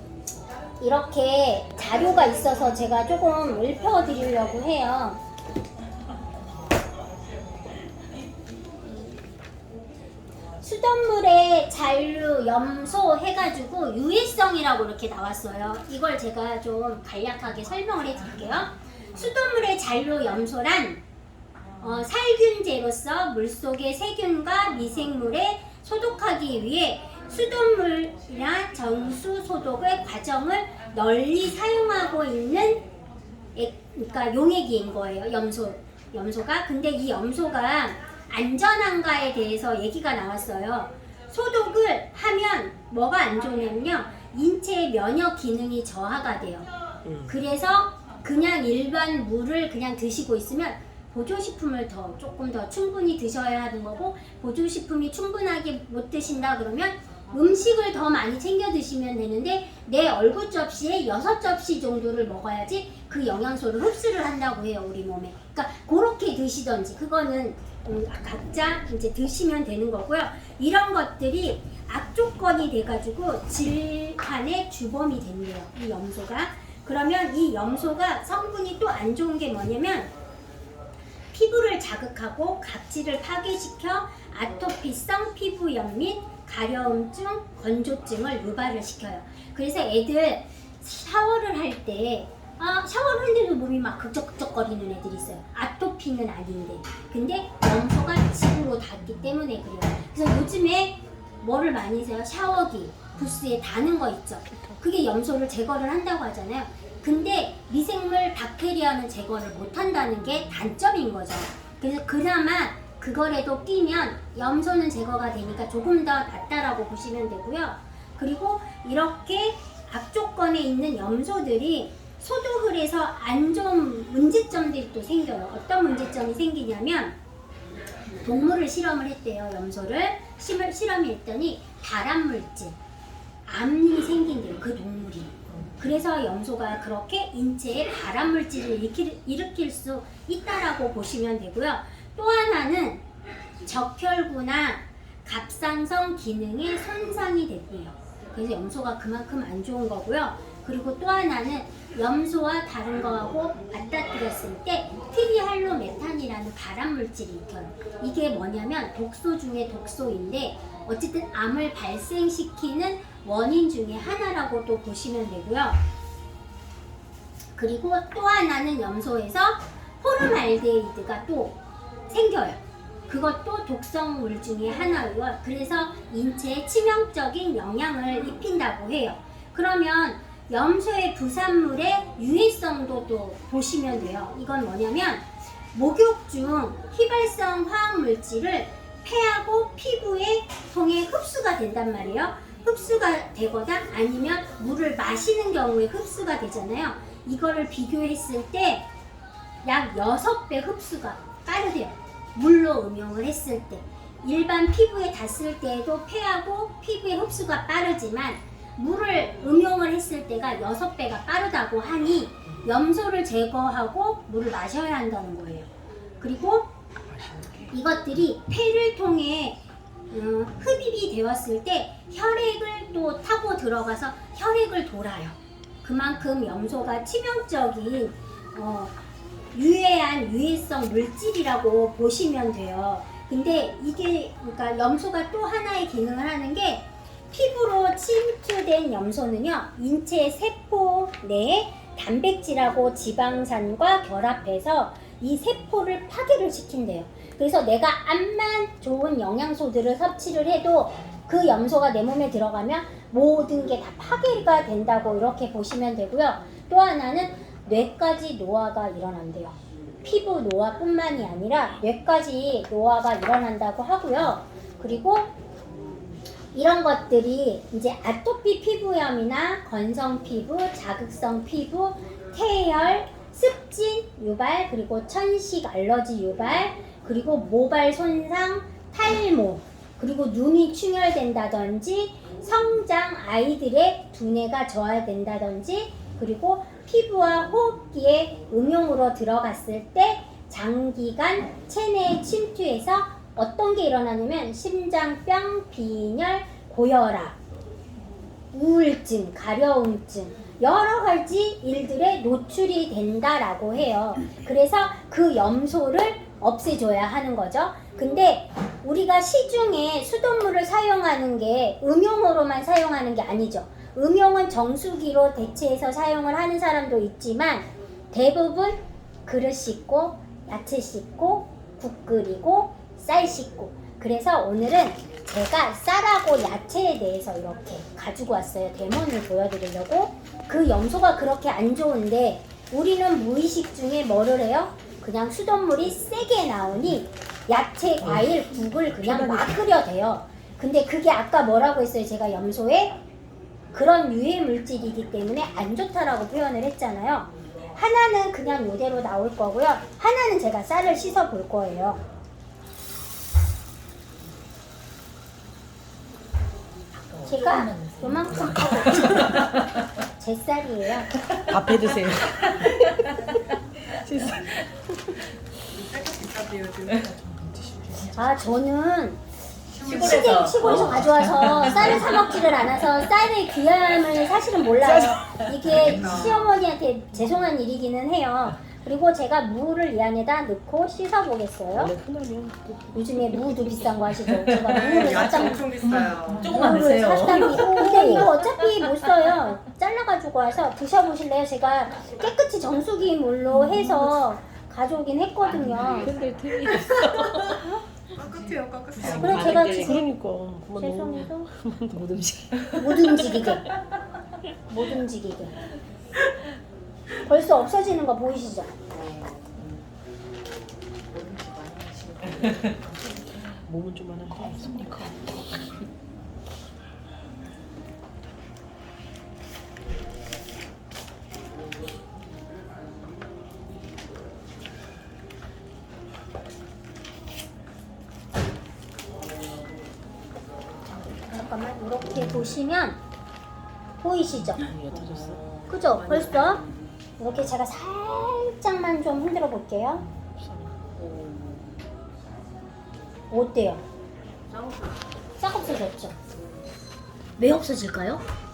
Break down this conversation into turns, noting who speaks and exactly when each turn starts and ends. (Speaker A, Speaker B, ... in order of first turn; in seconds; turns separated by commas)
Speaker A: 0.8-5.2, Speaker A: 10.6-21.0, Speaker A: 21.8-32.9, Speaker A: 33.5-46.7, Speaker A: 47.3-80.1, Speaker A: 81.3-127.2, Speaker A: 128.2-132.8, Speaker A: 133.5-143.0, Speaker A: 143.6-165.8, Speaker A: 167.6-198.9, Speaker A: 199.6-215.7, Speaker A: 216.2-216.7, Speaker B: 217.2-217.6, Speaker A: 217.7-229.0, Speaker A: 229.5-265.3, Speaker A: 266.5-297.4, Speaker A: 298.5-343.0, Speaker B: 339.0-339.5, Speaker A: 343.7-352.0, Speaker B: 357.1-359.5, Speaker A: 357.2-359.4, Speaker A: 360.2-361.1, Speaker B: 361.4-365.3, Speaker C: 365.7-367.1, Speaker B: 367.2-368.2, Speaker A: 368.1-369.2, Speaker C: 369.7-370.7, Speaker A: 369.8-381.9, Speaker C: 375.9-376.4, Speaker B: 381.8-384.1, Speaker A: 382.9-385.8, Speaker C: 384.6-386.5, Speaker B: 385.8-388.3, Speaker A: 386.4-396.2, Speaker B: 395.7-397.7, Speaker A: 397.0-397.4, Speaker C: 398.2-399.6, Speaker B: 399.0-403.6, Speaker A: 399.0-400.0, Speaker A: 402.8-403.7, Speaker A: 404.7-405.6, Speaker A: 407.3-408.7, Speaker B: 411.2-415.9, Speaker A: 431.1-433.0, Speaker A: 434.0-434.7, Speaker B: 434.5-436.4, Speaker A: 435.7-436.6, Speaker A: 437.2-440.1, Speaker B: 440.2-441.1, Speaker A: 443.3-443.8, Speaker A: 445.4-446.2, Speaker A: 447.4-448.2